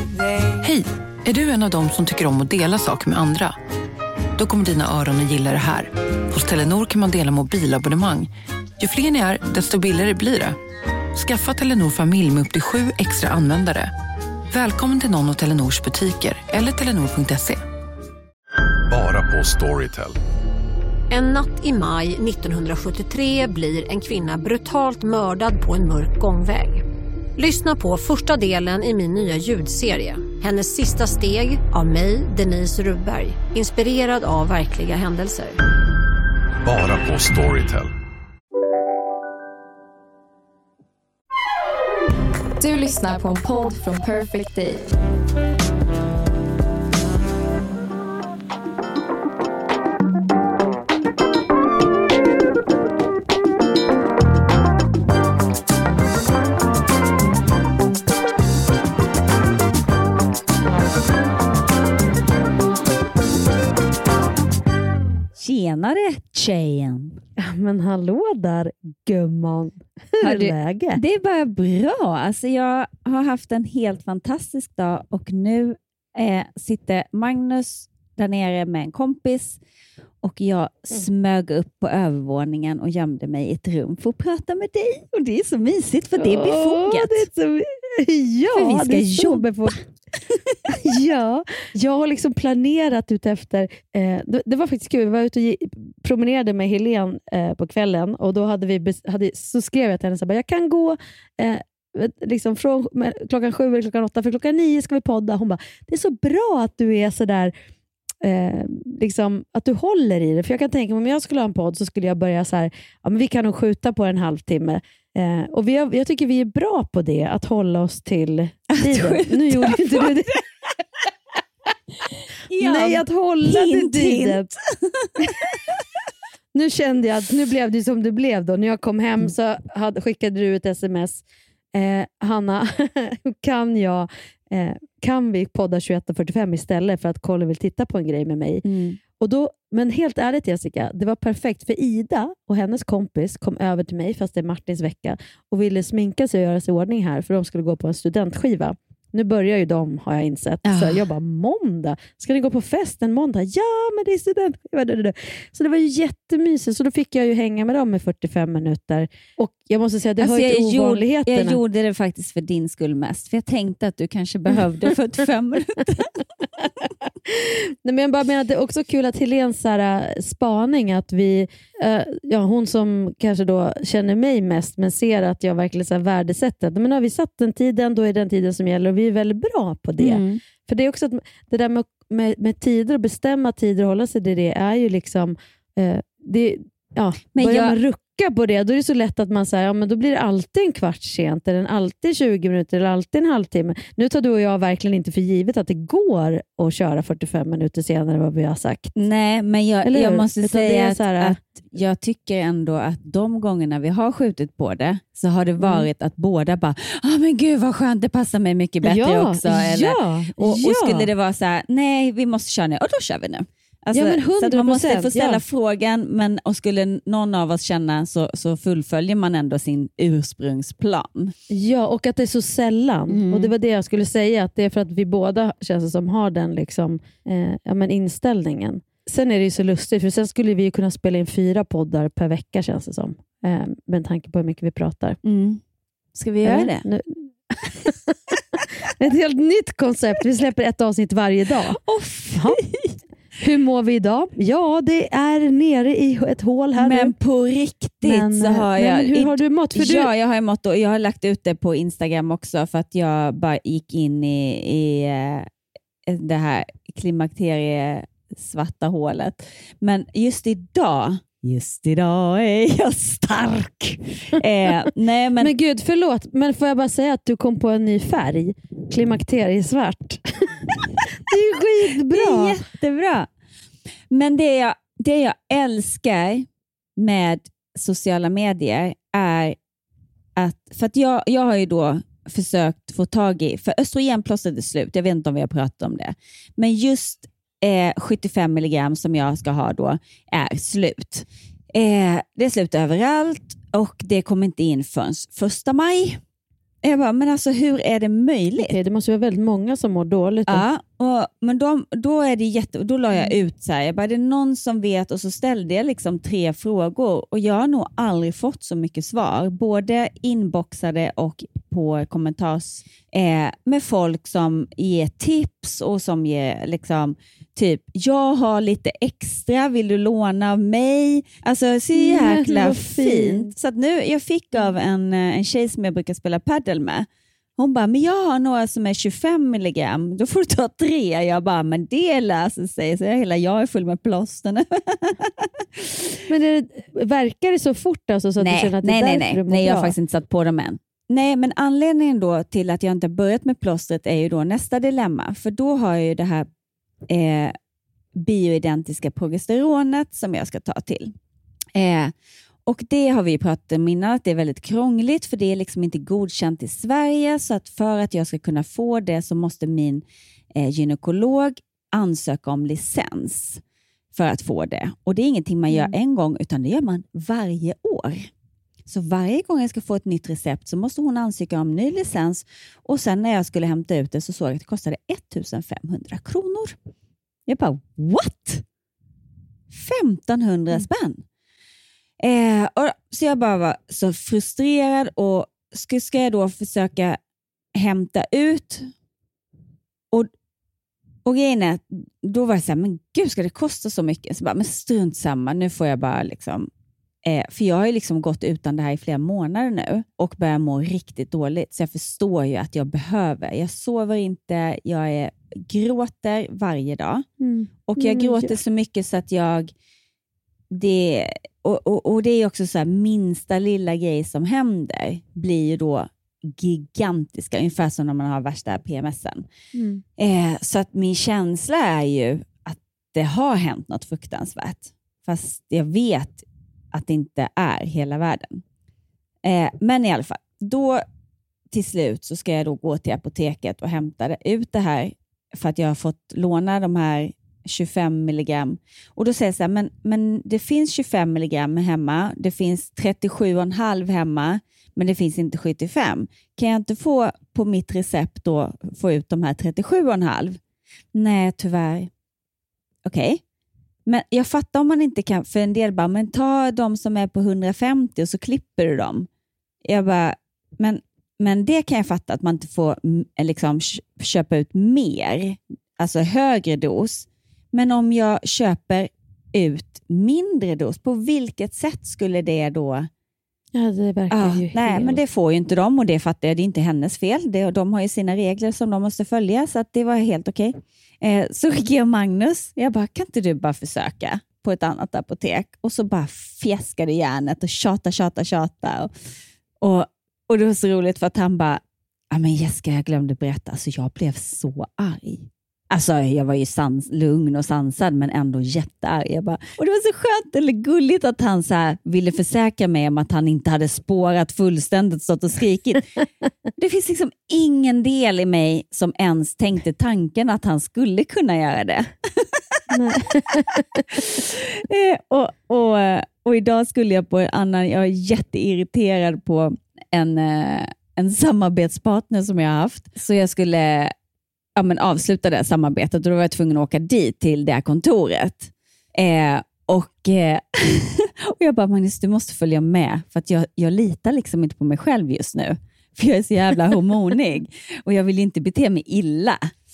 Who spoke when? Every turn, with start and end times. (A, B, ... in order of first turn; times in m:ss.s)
0:00.5-0:03.6 A
0:04.4-0:10.6 A
0:11.1-0:13.9 A
0:14.5-0:17.6 A
0:18.9-0:20.2 B
0:21.1-0:26.8 C
0:27.4-0:35.6 C
0:36.6-0:37.9 B
0:42.6-0:44.8 D
1:05.4-1:07.2 E
1:07.4-1:11.0 F
1:10.2-1:19.6 E
1:20.2-1:27.2 E
1:26.2-1:29.8 F
1:28.5-1:29.4 E
1:30.7-1:47.5 F
1:48.2-2:00.3 F
1:58.7-2:00.4 E
2:02.5-2:05.6 E
2:02.6-2:04.5 F
2:06.5-2:41.6 F
2:18.6-2:19.0 E
2:30.6-2:31.0 E
2:40.2-2:46.2 E
2:47.2-3:18.9 F
3:00.0-3:00.4 E
3:07.3-3:07.8 E
3:18.9-3:41.3 E
3:19.8-3:21.4 F
3:25.6-3:25.9 F
3:28.8-3:31.1 F
3:33.9-3:35.4 F
3:41.5-3:55.2 F
3:43.1-3:43.5 E
3:55.2-3:55.6 E
3:56.1-3:56.8 E
3:56.4-4:01.8 F
4:01.8-4:03.0 E
4:03.4-4:07.1 F
4:06.8-4:15.5 E
4:08.0-4:10.1 F
4:16.1-4:25.5 E
4:25.4-4:32.6 F
4:32.1-4:33.3 E
4:34.1-4:39.6 E
4:40.4-4:56.2 E
4:56.8-4:58.8 E
4:58.6-5:00.6 F
5:00.5-5:35.6 E
5:21.9-5:23.5 F
5:36.3-5:39.9 F
5:38.4-5:46.5 E
5:47.1-5:47.6 E
5:48.2-5:51.1 E
5:51.7-5:52.1 E
5:52.6-6:03.6 E
6:04.1-6:08.3 E
6:08.9-6:16.8 E
6:17.5-6:18.6 E
6:19.7-6:21.2 E
6:22.2-6:27.2 E
6:27.8-6:28.9 E
6:31.2-6:36.7 E
6:37.2-6:47.2 E
6:47.4-6:48.5 F
6:47.9-6:49.7 E
6:50.7-6:59.5 E
6:59.7-7:00.0 F
7:00.2-7:08.6 E
7:09.4-7:11.0 E
7:11.7-7:30.6 E
7:31.1-7:32.1 E
7:33.0-7:33.4 E
7:34.0-7:39.3 E
7:39.8-7:53.1 E
7:53.7-7:55.2 F
7:54.3-8:09.1 E
8:09.8-8:26.1 E
8:26.8-8:32.8 E
8:32.9-8:34.0 F
8:34.1-8:44.1 E
8:44.8-8:59.7 E